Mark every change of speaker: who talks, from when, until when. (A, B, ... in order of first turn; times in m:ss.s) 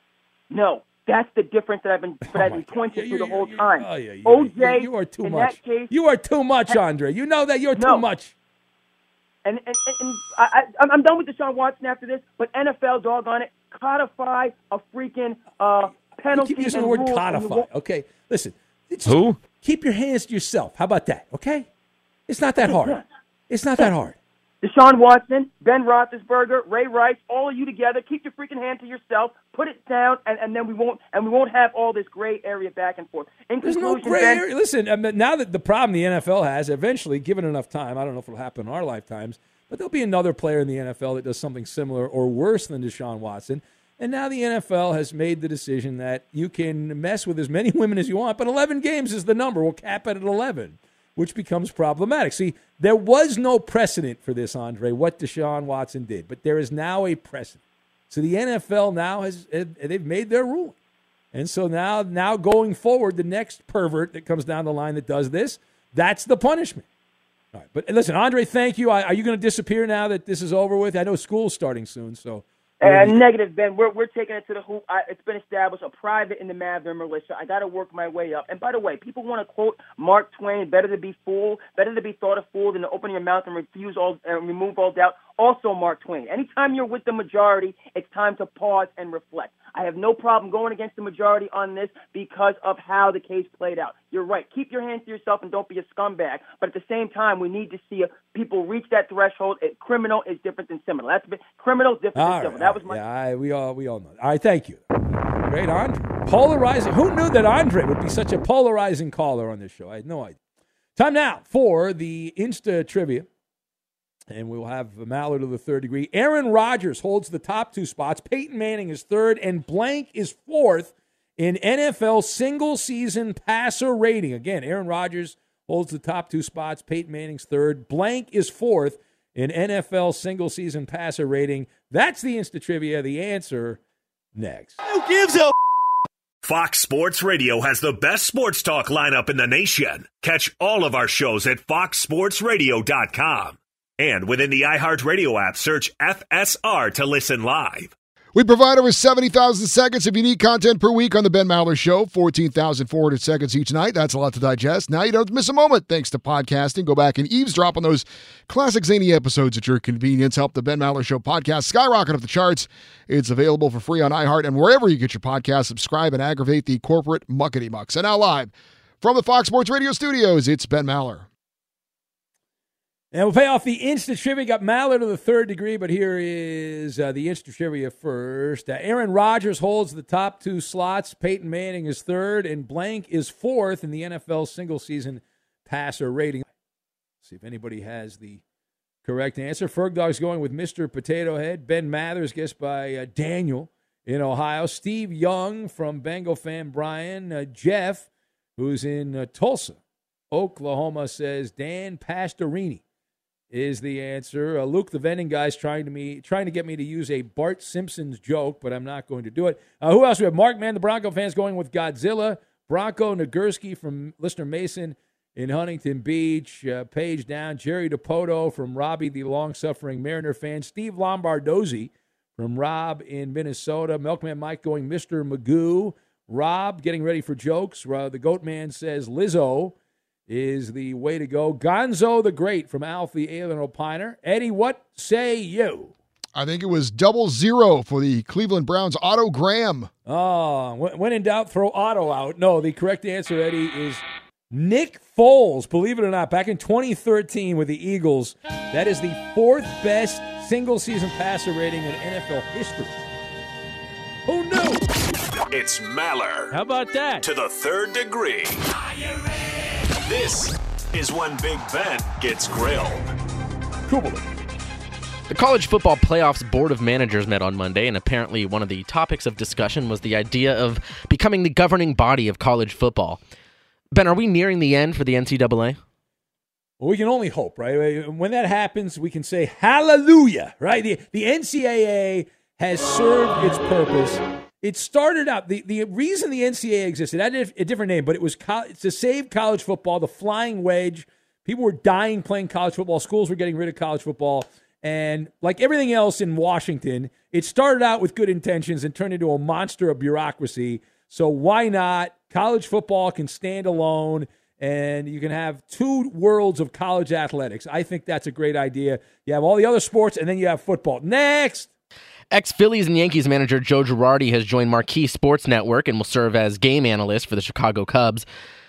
0:00.5-0:05.9 A
0:02.3-0:08.3 B
0:07.8-0:08.0 A
0:09.4-0:17.7 A
0:16.3-0:21.7 B
0:19.1-0:19.3 C
0:22.3-0:24.2 B
0:22.6-0:23.0 A
0:24.6-0:34.4 A
0:33.6-1:00.8 B
1:01.3-1:06.8 B
1:07.5-1:13.2 B
1:12.8-1:43.0 A
1:42.1-1:50.4 B
1:51.0-1:53.3 B
1:54.3-2:13.8 B
2:14.3-2:14.8 B
2:16.4-2:27.9 D
2:28.3-2:51.3 E
2:53.1-3:06.5 B
3:07.2-3:08.4 B
3:09.0-3:19.8 B
3:20.3-3:22.8 B
3:23.5-3:49.7 B
3:50.3-3:55.9 B
3:56.4-3:59.9 E
4:00.0-4:13.0 B
4:14.3-4:14.8 B
4:15.5-4:16.5 D
4:16.5-4:17.2 B
4:17.2-4:19.4 D
4:20.0-4:23.1 D
4:23.9-4:24.2 B
4:25.3-4:33.2 C
4:33.9-4:35.8 C
4:36.8-5:11.7 B
5:12.3-5:18.2 C